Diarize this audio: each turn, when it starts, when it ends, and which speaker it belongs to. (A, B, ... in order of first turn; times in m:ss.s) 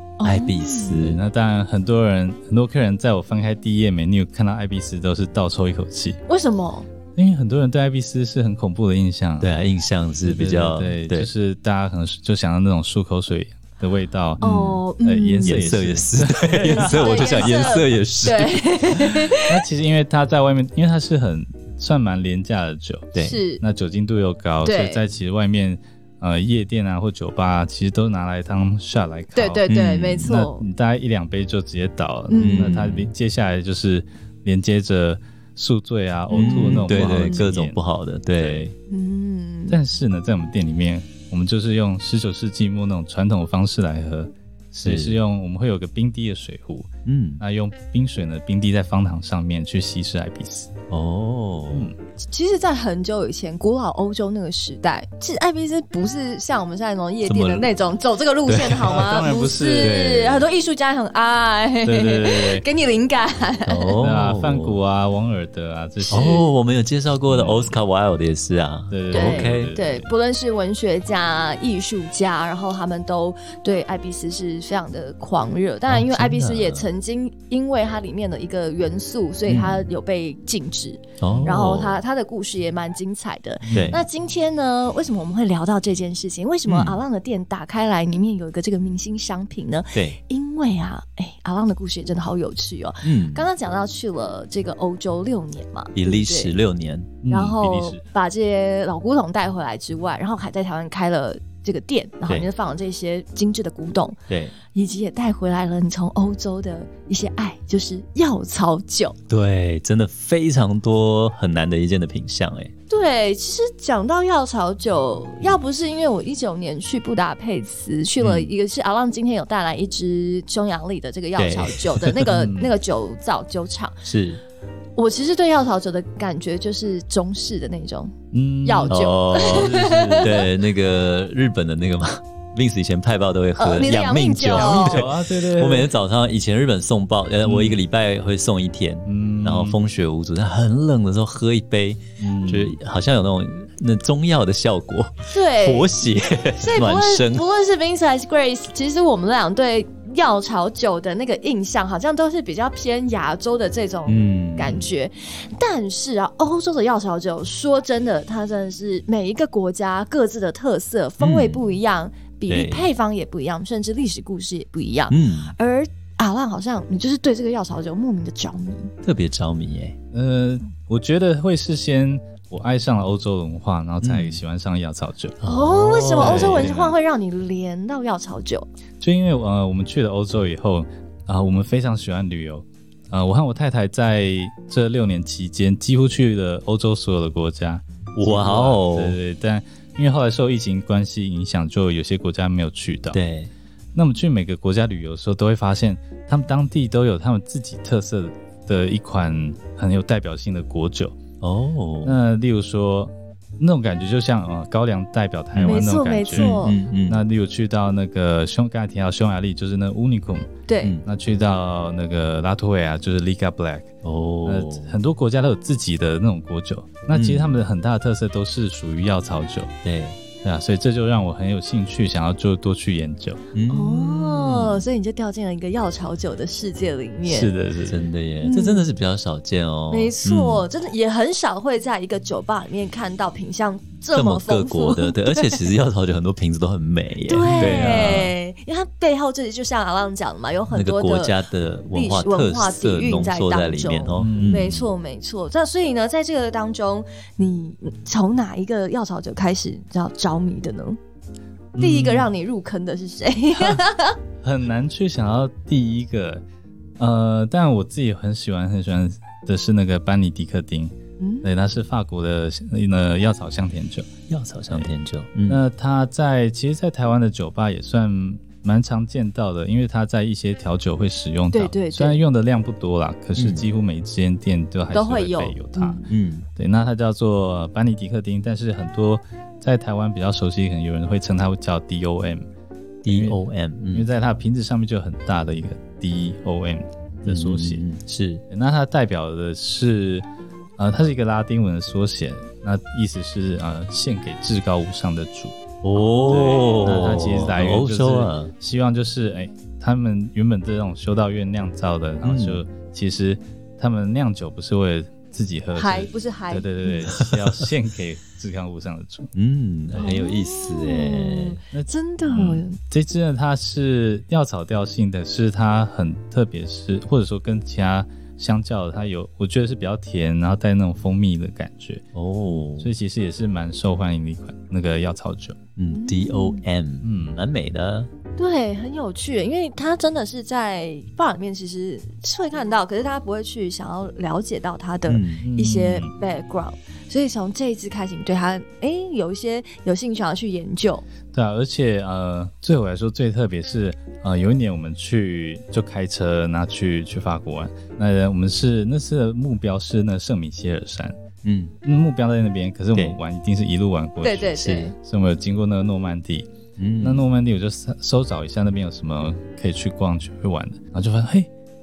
0:00.2-0:01.0 A
0:00.2-0:01.2 B
0:01.0-0:06.2 C
0:06.3-0:06.9 A
0:07.1-0:09.5 C
0:09.4-0:11.3 B
0:10.2-0:14.4 C
0:14.4-0:15.7 A
0:14.4-0:14.8 B
0:15.0-0:17.7 C
0:15.4-0:19.1 B
0:16.6-0:19.6 A
0:19.5-0:29.6 C
0:23.1-0:23.4 B
0:23.2-0:23.6 A
0:24.6-0:25.0 A
0:29.3-0:30.6 A
0:29.7-0:30.3 B
0:30.2-0:37.8 C
0:32.3-0:32.7 A
0:32.4-0:33.1 B
0:36.3-0:37.4 A
0:36.3-0:38.7 B
0:38.4-0:38.7 C
0:38.9-0:39.8 A
0:39.7-0:50.7 C
0:44.8-0:45.2 B
0:47.0-0:47.4 B
0:50.9-0:51.9 B
0:52.2-1:04.0 A
0:57.2-0:57.7 B
0:58.4-0:59.2 B
0:58.8-1:00.4 C
0:59.8-1:00.1 B
1:01.8-1:02.6 C
1:03.7-1:04.8 B
1:04.0-1:06.4 C
1:06.0-1:06.5 A
1:06.1-1:09.7 B
1:07.3-1:07.8 C
1:08.9-1:10.1 C
1:09.1-1:36.5 A
1:15.9-1:16.9 B
1:19.5-1:19.9 B
1:21.2-1:22.0 B
1:23.7-1:24.0 C
1:23.7-1:24.0 B
1:26.7-1:27.0 B
1:33.0-1:33.5 B
1:35.9-1:37.2 B
1:37.2-1:38.0 C
1:37.3-1:44.2 A
1:44.3-1:44.5 B
1:44.7-1:49.2 A
1:49.3-1:52.7 B
1:52.9-2:04.0 A
1:58.2-1:58.5 B
2:01.4-2:02.3 B
2:02.3-2:02.7 C
2:04.0-2:04.4 B
2:05.0-2:08.1 A
2:08.3-2:10.4 C
2:08.6-2:10.4 A
2:08.9-2:27.4 B
2:13.6-2:15.0 A
2:14.4-2:15.9 C
2:17.4-2:17.8 C
2:19.0-2:19.8 C
2:22.2-2:22.8 C
2:25.3-2:25.9 A
2:26.6-2:48.9 A
2:34.1-2:34.9 B
2:41.2-2:41.7 B
2:42.5-2:42.9 B
2:45.1-2:45.5 B
2:49.0-2:50.0 B
2:50.1-2:55.4 C
2:54.0-2:54.4 B
2:55.4-2:56.7 B
2:55.4-2:58.7 A
2:56.2-2:57.0 C
2:59.0-3:13.2 C
3:08.1-3:09.2 B
3:13.1-3:13.5 B
3:13.9-3:21.2 C
3:21.4-3:22.1 B
3:22.0-3:30.5 C
3:25.5-3:25.8 B
3:25.6-3:26.8 A
3:26.3-3:27.2 B
3:30.7-3:31.0 A
3:31.0-3:33.9 C
3:34.0-3:34.9 B
3:34.4-3:39.7 C
3:37.1-3:37.6 B
3:39.8-3:40.2 B
3:40.4-3:43.4 C
3:43.5-3:44.8 B
3:43.7-3:47.5 A
3:47.2-3:48.1 C
3:47.9-3:50.7 B
3:48.4-3:48.9 A
3:49.9-3:55.6 A
3:54.1-3:58.3 B
3:57.2-4:01.4 A
3:57.5-3:58.2 C
4:00.7-4:04.9 B
4:01.9-4:11.0 A
4:04.2-4:04.8 C
4:11.7-4:12.3 C
4:11.8-4:14.2 A
4:14.4-4:16.4 C
4:17.0-4:24.1 C
4:21.2-4:21.5 A
4:24.3-4:25.6 B
4:25.5-4:36.0 C
4:31.5-4:32.2 A
4:33.4-4:33.6 B
4:34.9-4:36.0 A
4:36.1-4:36.5 B
4:36.6-4:42.4 C
4:43.0-4:44.1 B
4:43.1-4:43.4 C
4:43.9-4:47.8 C
4:47.2-4:48.4 B
4:48.5-4:50.2 C
4:50.8-4:55.6 C
4:55.8-4:58.5 B
4:55.9-4:56.8 A
4:56.3-5:09.3 C
5:02.2-5:02.6 B
5:05.7-5:07.0 A
5:07.2-5:07.7 B
5:09.3-5:11.6 B
5:09.9-5:12.8 A
5:11.7-5:22.0 C
5:12.3-5:12.6 B
5:22.1-5:22.9 B
5:22.8-5:25.6 C
5:25.8-5:28.1 B
5:25.9-5:26.6 A
5:27.0-5:27.4 C
5:28.4-5:41.0 A
5:35.1-5:35.4 B
5:35.4-5:36.1 C
5:41.3-5:51.2 C
5:51.4-5:51.7 B
5:51.8-5:56.5 C
5:54.2-5:54.9 A
5:56.8-5:57.2 B
5:57.0-6:01.5 C